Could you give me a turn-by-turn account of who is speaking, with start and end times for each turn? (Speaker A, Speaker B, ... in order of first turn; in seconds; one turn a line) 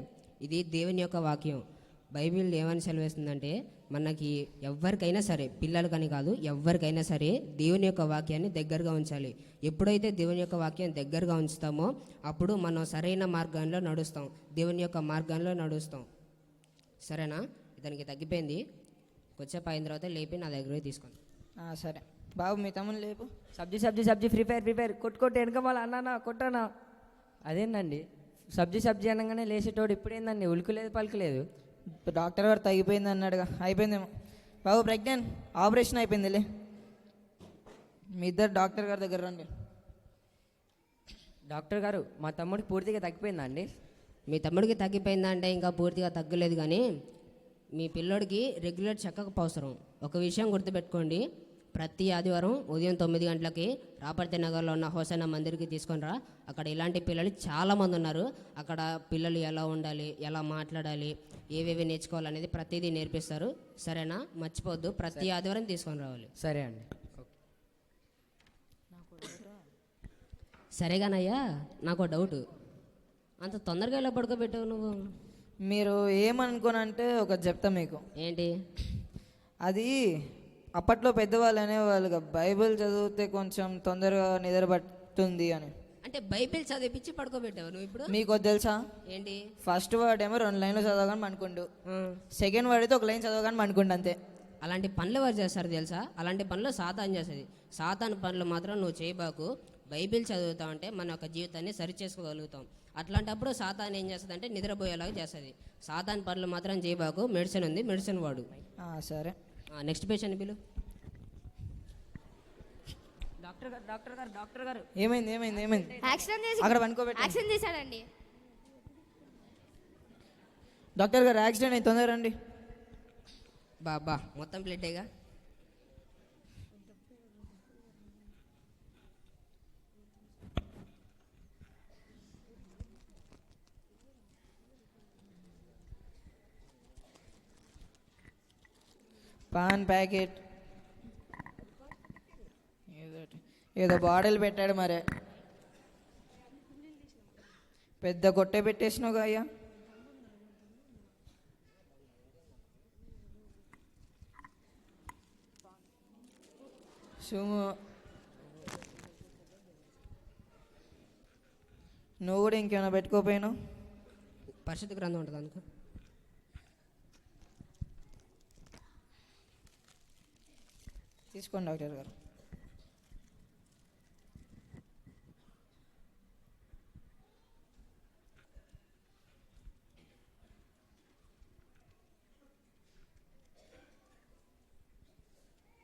Speaker A: 0.4-16.1
Speaker A: 17.0-18.6
Speaker A: 19.4-21.2
Speaker B: 21.6-23.3
Speaker C: 23.6-26.7
Speaker C: 27.5-28.0
Speaker C: 28.6-31.4
Speaker B: 32.1-34.1
Speaker B: 34.6-36.4
Speaker B: 38.2-39.5
Speaker C: 41.5-43.6
Speaker A: 44.3-46.8
Speaker A: 47.8-66.3
Speaker C: 66.4-67.3
Speaker B: 69.0-69.5
Speaker A: 70.8-72.4
Speaker A: 73.4-74.9
Speaker B: 75.7-78.0
Speaker A: 78.2-78.5
Speaker B: 79.6-79.9
Speaker B: 80.8-85.7
Speaker A: 86.0-88.1
Speaker B: 88.1-88.8
Speaker A: 89.1-89.5
Speaker B: 89.6-91.7
Speaker A: 91.9-92.2
Speaker B: 92.3-94.2
Speaker A: 94.6-108.5
Speaker B: 108.8-109.3
Speaker A: 109.8-110.6
Speaker C: 113.4-114.8
Speaker B: 115.0-116.0
Speaker C: 115.7-116.3
Speaker D: 116.0-118.0
Speaker B: 116.6-117.4
Speaker B: 121.0-122.3
Speaker A: 123.8-125.1
Speaker B: 139.5-140.4
Speaker B: 142.9-145.0
Speaker B: 148.0-149.5
Speaker B: 157.2-157.8
Speaker B: 162.2-163.5
Speaker A: 164.6-165.6
Speaker B: 171.3-172.1